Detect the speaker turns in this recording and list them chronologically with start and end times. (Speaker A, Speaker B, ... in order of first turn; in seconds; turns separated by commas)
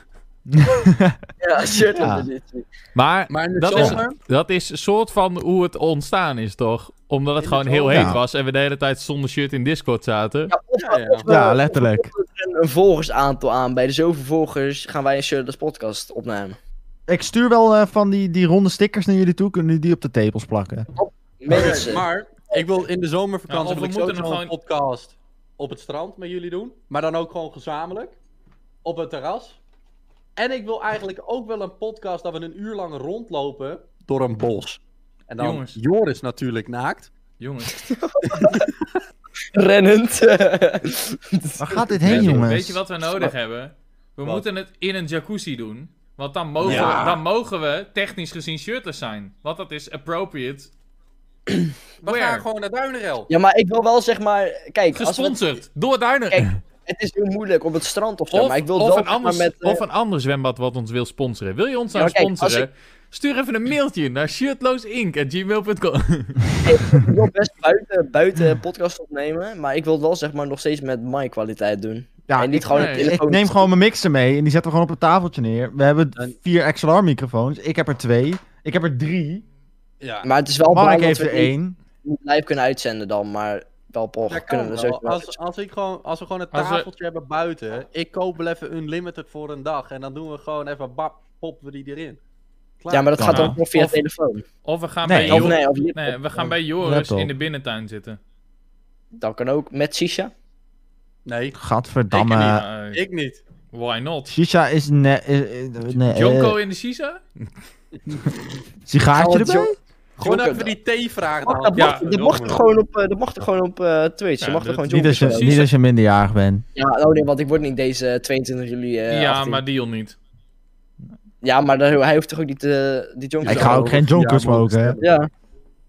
Speaker A: 0.5-1.2, Speaker B: 1.4-2.7, Speaker A: 2.0-2.3, Speaker C: 2.9-10.5, Speaker D: 3.3-4.2, Speaker A: 3.7-4.0, Speaker D: 7.4-8.2, Speaker A: 7.9-8.2, Speaker B: 10.5-16.6, Speaker D: 10.8-11.3, Speaker A: 11.2-12.1, Speaker A: 17.1-20.9, Speaker B: 20.9-22.6, Speaker D: 21.5-28.1, Speaker C: 23.5-24.5, Speaker D: 28.8-29.6, Speaker D: 30.4-37.1, Speaker C: 35.4-35.8, Speaker C: 37.4-37.8, Speaker B: 37.7-38.7, Speaker D: 38.3-39.0, Speaker B: 39.5-41.9, Speaker A: 41.6-42.8, Speaker C: 42.0-50.7, Speaker D: 42.1-42.4, Speaker D: 46.6-47.2, Speaker B: 46.6-47.0, Speaker D: 52.0-53.3, Speaker C: 52.0-52.4, Speaker B: 53.3-55.4, Speaker C: 54.9-56.6, Speaker B: 56.3-59.8, Speaker C: 58.3-66.5, Speaker B: 61.9-62.7, Speaker B: 66.6-73.7, Speaker A: 72.3-79.4, Speaker C: 72.7-73.1, Speaker D: 80.0-80.3, Speaker B: 80.2-85.4, Speaker A: 80.7-81.8, Speaker D: 84.3-92.2, Speaker C: 86.5-86.9, Speaker D: 92.8-93.3, Speaker B: 92.9-94.4, Speaker A: 93.2-93.6, Speaker C: 93.2-94.0, Speaker C: 94.6-98.2, Speaker A: 95.0-95.6, Speaker B: 95.2-96.5, Speaker A: 96.8-97.3, Speaker B: 99.2-100.3, Speaker D: 101.2-101.6, Speaker A: 101.6-102.6, Speaker D: 102.1-103.4, Speaker C: 102.4-103.0, Speaker C: 103.7-104.4, Speaker A: 104.3-106.6, Speaker C: 105.9-107.5, Speaker D: 108.0-108.3, Speaker A: 108.9-109.7, Speaker B: 109.2-110.8, Speaker D: 110.2-112.6, Speaker B: 111.4-115.6, Speaker C: 111.8-112.6, Speaker C: 114.4-115.7, Speaker A: 114.9-116.7, Speaker B: 116.8-119.6, Speaker C: 119.1-120.2, Speaker B: 121.4-124.0, Speaker D: 123.4-125.2, Speaker A: 123.5-125.0, Speaker B: 125.0-125.3